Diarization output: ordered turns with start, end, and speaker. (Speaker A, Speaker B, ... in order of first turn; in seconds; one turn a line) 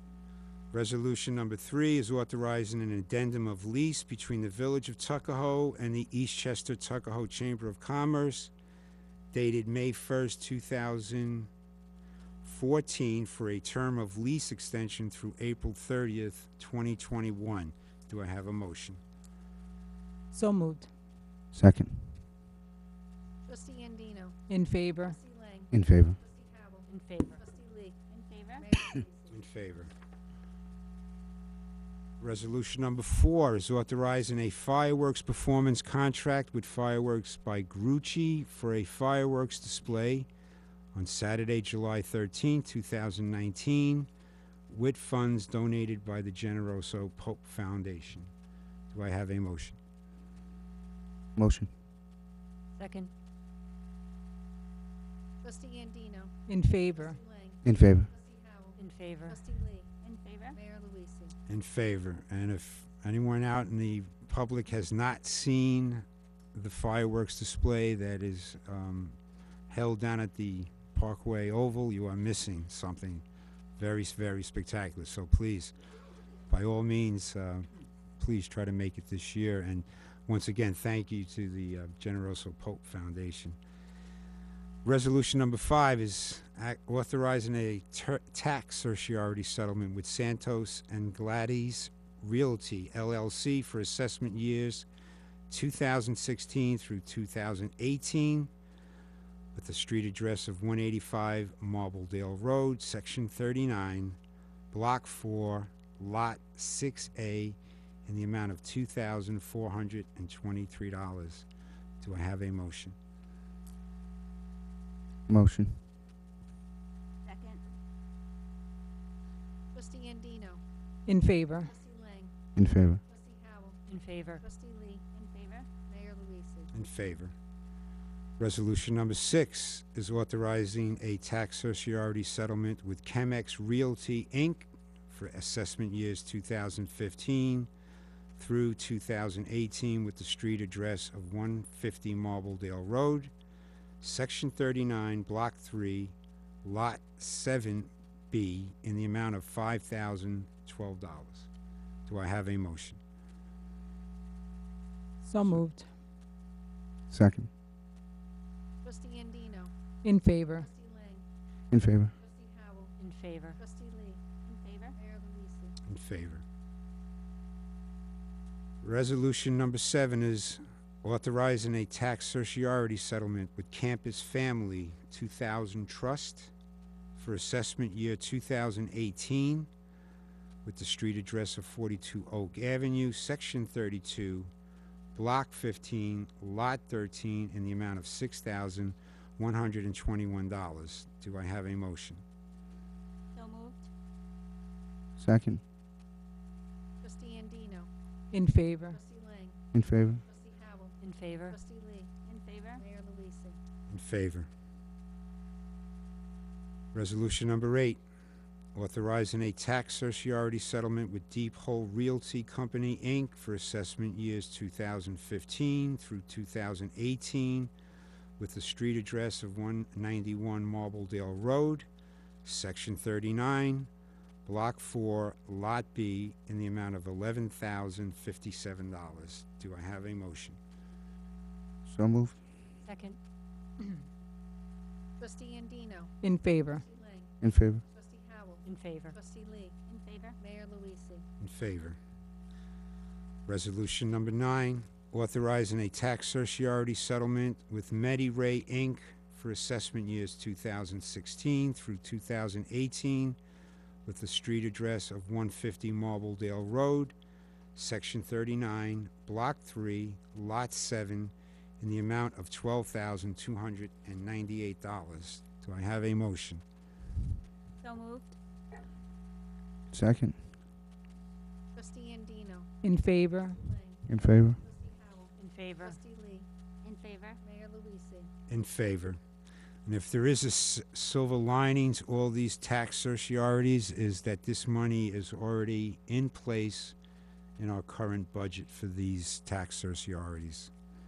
Speaker A: 0.7-8.5
Speaker A: 9.3-11.5
Speaker A: 12.4-19.0
Speaker B: 20.3-20.9
Speaker C: 21.5-22.2
Speaker D: 23.5-24.4
Speaker B: 24.5-25.2
Speaker D: 25.0-26.9
Speaker C: 25.7-26.2
Speaker E: 26.9-27.4
Speaker D: 27.4-27.9
Speaker F: 28.1-28.7
Speaker D: 28.6-29.3
Speaker A: 29.3-29.9
Speaker A: 32.2-40.3
Speaker A: 40.9-44.1
Speaker A: 44.7-48.3
Speaker A: 48.9-49.8
Speaker C: 51.4-51.7
Speaker E: 52.8-53.1
Speaker D: 55.4-59.9
Speaker B: 56.5-57.2
Speaker C: 57.6-58.1
Speaker E: 58.8-59.5
Speaker F: 60.0-60.6
Speaker D: 60.5-61.4
Speaker A: 61.5-69.2
Speaker A: 69.7-73.2
Speaker A: 73.8-75.7
Speaker A: 76.5-83.6
Speaker A: 84.8-94.9
Speaker A: 95.5-98.5
Speaker A: 99.5-104.2
Speaker A: 104.7-111.5
Speaker A: 112.0-113.0
Speaker C: 115.3-115.8
Speaker F: 117.2-117.6
Speaker D: 119.7-120.6
Speaker B: 121.1-121.7
Speaker D: 121.6-122.3
Speaker C: 122.5-123.0
Speaker D: 123.1-123.8
Speaker E: 123.9-124.4
Speaker D: 124.4-125.0
Speaker F: 125.1-125.7
Speaker D: 125.9-126.7
Speaker A: 126.7-127.3
Speaker A: 128.4-137.7
Speaker A: 138.4-143.3
Speaker A: 144.0-151.5
Speaker A: 152.1-153.0
Speaker B: 155.2-155.9
Speaker C: 157.1-157.5
Speaker D: 158.8-159.7
Speaker B: 160.0-160.7
Speaker D: 160.5-161.2
Speaker C: 161.7-162.1
Speaker D: 162.2-162.9
Speaker E: 163.0-163.6
Speaker D: 163.6-164.2
Speaker F: 164.4-164.9
Speaker D: 165.0-165.8
Speaker A: 165.9-166.4
Speaker A: 168.8-176.5
Speaker A: 177.2-179.7
Speaker A: 180.7-184.5
Speaker A: 185.2-192.2
Speaker F: 193.3-193.9
Speaker C: 195.2-195.6
Speaker D: 197.0-197.9
Speaker B: 198.3-199.0
Speaker D: 198.9-199.6
Speaker C: 199.7-200.2
Speaker D: 200.2-202.1
Speaker E: 201.0-201.6
Speaker F: 202.2-202.8
Speaker D: 202.8-203.6
Speaker A: 203.9-204.5
Speaker A: 206.9-208.0
Speaker A: 208.8-217.7
Speaker A: 218.4-221.9
Speaker A: 222.4-223.9
Speaker A: 224.4-230.6
Speaker C: 231.9-232.4
Speaker E: 232.8-233.2
Speaker D: 235.2-237.3
Speaker B: 236.2-236.9
Speaker C: 237.4-237.8
Speaker D: 237.9-239.8
Speaker E: 238.7-239.2
Speaker F: 239.9-240.4
Speaker D: 240.4-241.3
Speaker A: 241.4-242.0
Speaker A: 243.5-253.4
Speaker A: 254.1-257.1
Speaker A: 257.8-266.6
Speaker F: 267.8-268.4
Speaker C: 269.9-270.4
Speaker D: 271.8-272.7
Speaker B: 272.8-273.7
Speaker D: 273.3-276.5
Speaker C: 274.1-274.6
Speaker E: 275.4-276.0
Speaker F: 276.8-277.4
Speaker D: 277.4-278.3
Speaker A: 278.5-279.2
Speaker A: 279.9-287.0
Speaker A: 287.6-290.7